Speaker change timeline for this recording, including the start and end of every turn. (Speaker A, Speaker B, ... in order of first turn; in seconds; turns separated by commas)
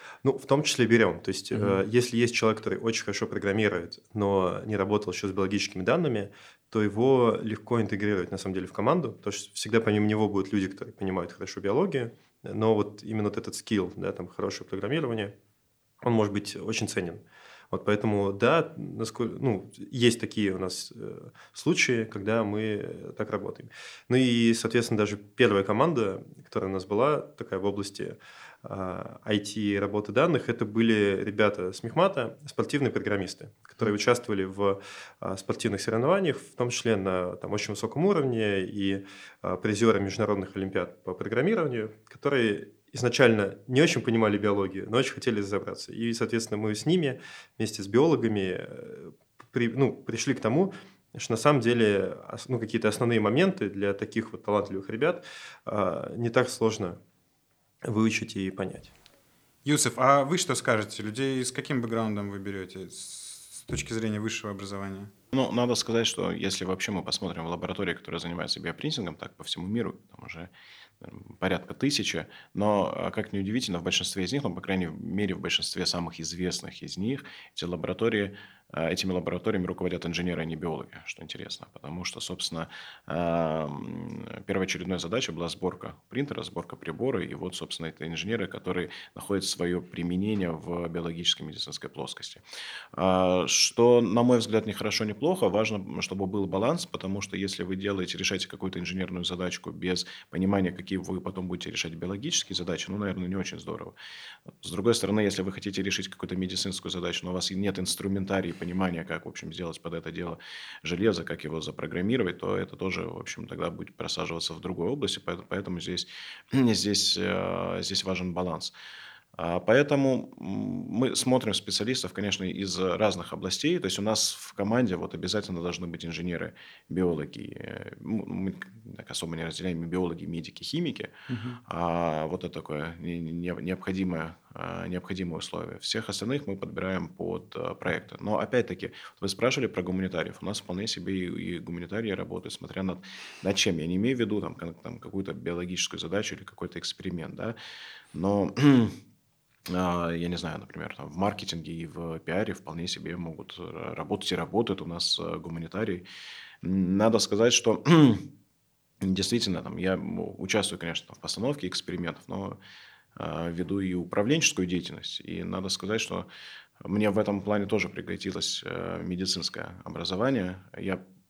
Speaker A: 0.2-15.3, Speaker B: 1.5-1.8, Speaker A: 16.0-57.0, Speaker A: 57.8-58.9, Speaker B: 59.6-65.1, Speaker C: 65.3-70.5, Speaker C: 71.0-92.4, Speaker C: 93.0-103.9, Speaker C: 104.6-118.7, Speaker C: 119.4-131.1, Speaker B: 131.3-131.6, Speaker C: 131.7-147.6, Speaker C: 148.1-149.0, Speaker C: 149.7-156.1, Speaker C: 156.6-158.3, Speaker C: 159.0-162.6, Speaker C: 163.2-166.3, Speaker C: 166.8-171.1